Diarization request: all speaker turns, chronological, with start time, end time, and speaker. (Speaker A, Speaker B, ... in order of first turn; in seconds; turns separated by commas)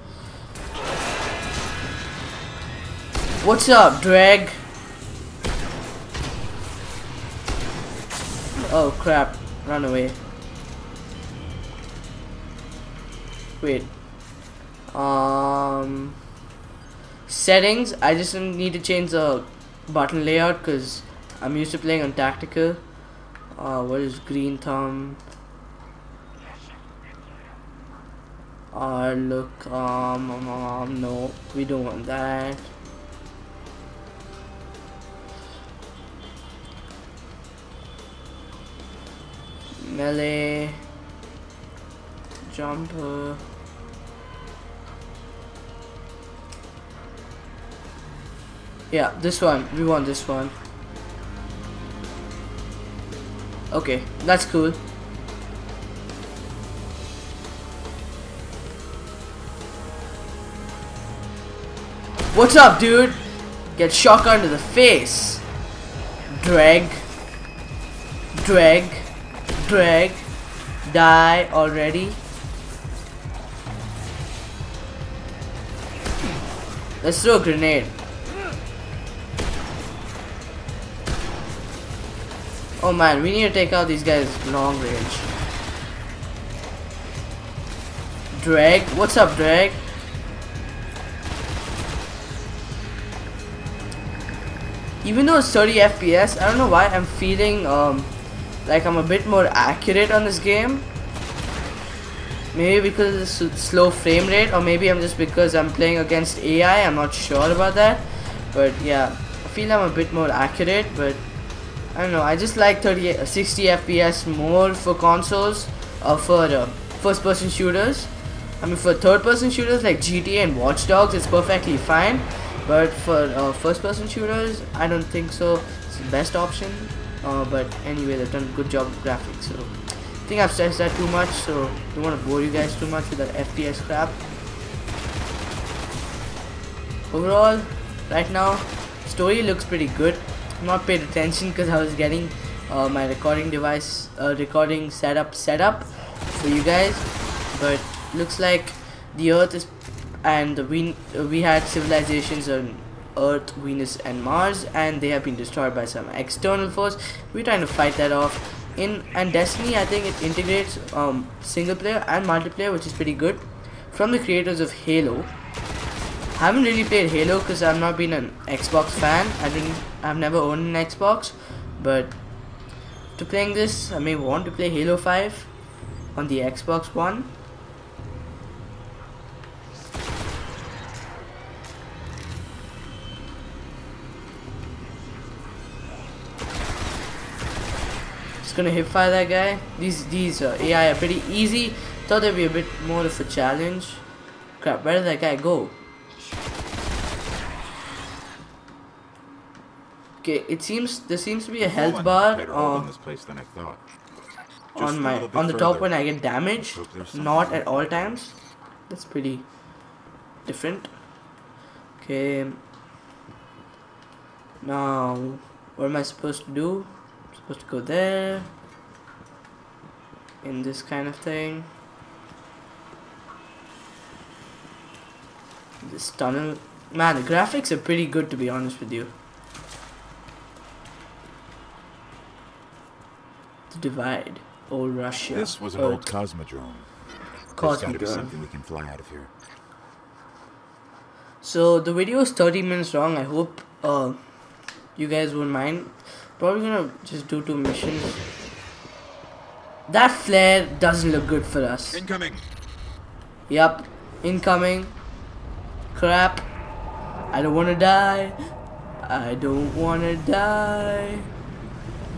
Speaker A: 3.4-4.6, Speaker A: 8.7-10.2, Speaker A: 13.6-13.9, Speaker A: 14.9-16.2, Speaker A: 17.3-22.8, Speaker A: 23.6-25.2, Speaker A: 28.7-32.7, Speaker A: 39.8-40.8, Speaker A: 42.5-43.4, Speaker A: 48.9-50.5, Speaker A: 53.7-54.8, Speaker A: 62.3-63.2, Speaker A: 63.8-65.4, Speaker A: 66.3-67.0, Speaker A: 68.3-70.3, Speaker A: 70.8-72.2, Speaker A: 77.0-78.0, Speaker A: 82.8-85.3, Speaker A: 88.3-89.8, Speaker A: 95.0-98.1, Speaker A: 98.7-100.9, Speaker A: 102.5-111.2, Speaker A: 111.9-134.2, Speaker A: 137.1-165.3, Speaker A: 166.3-172.2, Speaker A: 173.2-175.5, Speaker A: 176.1-177.3, Speaker A: 188.4-194.0, Speaker A: 194.6-195.8, Speaker A: 200.2-202.9, Speaker B: 201.6-203.8, Speaker B: 204.8-205.9, Speaker A: 204.8-208.3, Speaker B: 206.6-207.9, Speaker A: 208.9-209.5, Speaker A: 210.4-210.9, Speaker A: 212.0-212.6, Speaker A: 214.6-218.5, Speaker A: 220.4-221.7, Speaker A: 225.8-229.1, Speaker A: 233.7-236.1, Speaker B: 235.3-236.9, Speaker A: 237.6-238.3, Speaker B: 237.6-239.3, Speaker A: 241.4-244.2, Speaker A: 245.0-248.2, Speaker A: 249.9-252.0, Speaker B: 251.9-252.4, Speaker A: 253.5-254.9, Speaker A: 255.9-256.5, Speaker A: 257.3-258.4, Speaker A: 259.0-261.3